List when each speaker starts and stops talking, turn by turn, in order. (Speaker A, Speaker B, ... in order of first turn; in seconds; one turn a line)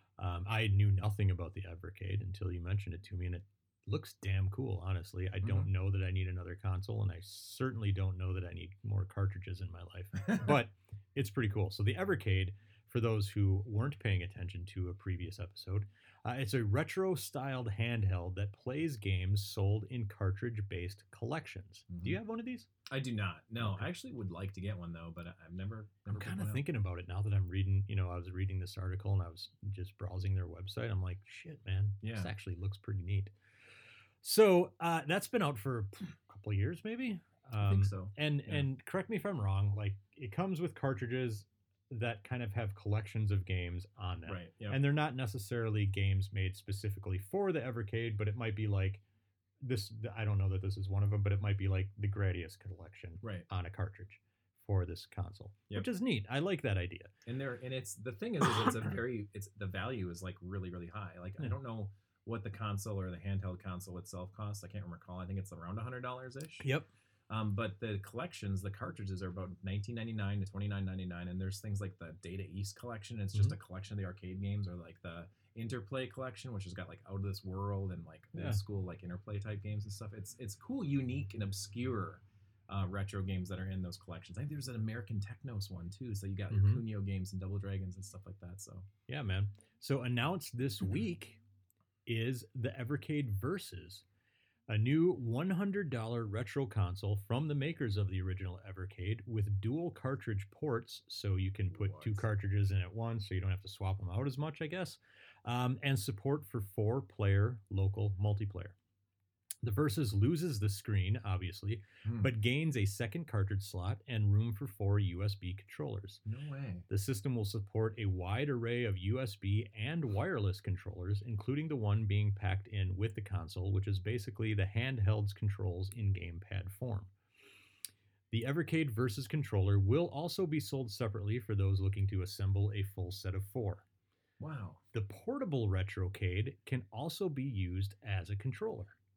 Speaker A: 0.2-22.7
Speaker B: 5.4-5.7
Speaker B: 10.2-10.4
Speaker B: 21.9-22.2
Speaker B: 22.9-26.6
Speaker A: 23.6-23.9
Speaker A: 26.1-33.3
Speaker B: 32.0-32.3
Speaker A: 34.2-49.0
Speaker B: 37.6-38.7
Speaker B: 44.2-44.8
Speaker A: 49.6-57.1
Speaker B: 53.2-53.5
Speaker B: 57.2-66.7
Speaker A: 66.6-66.9
Speaker B: 67.3-88.8
Speaker A: 86.5-86.8
Speaker A: 89.1-91.4
Speaker A: 92.0-94.0
Speaker A: 94.7-108.8
Speaker B: 101.7-102.2
Speaker A: 109.6-116.2
Speaker B: 112.0-112.3
Speaker B: 116.2-116.9
Speaker A: 116.9-127.1
Speaker A: 128.3-133.8
Speaker B: 134.4-134.8
Speaker A: 134.9-138.9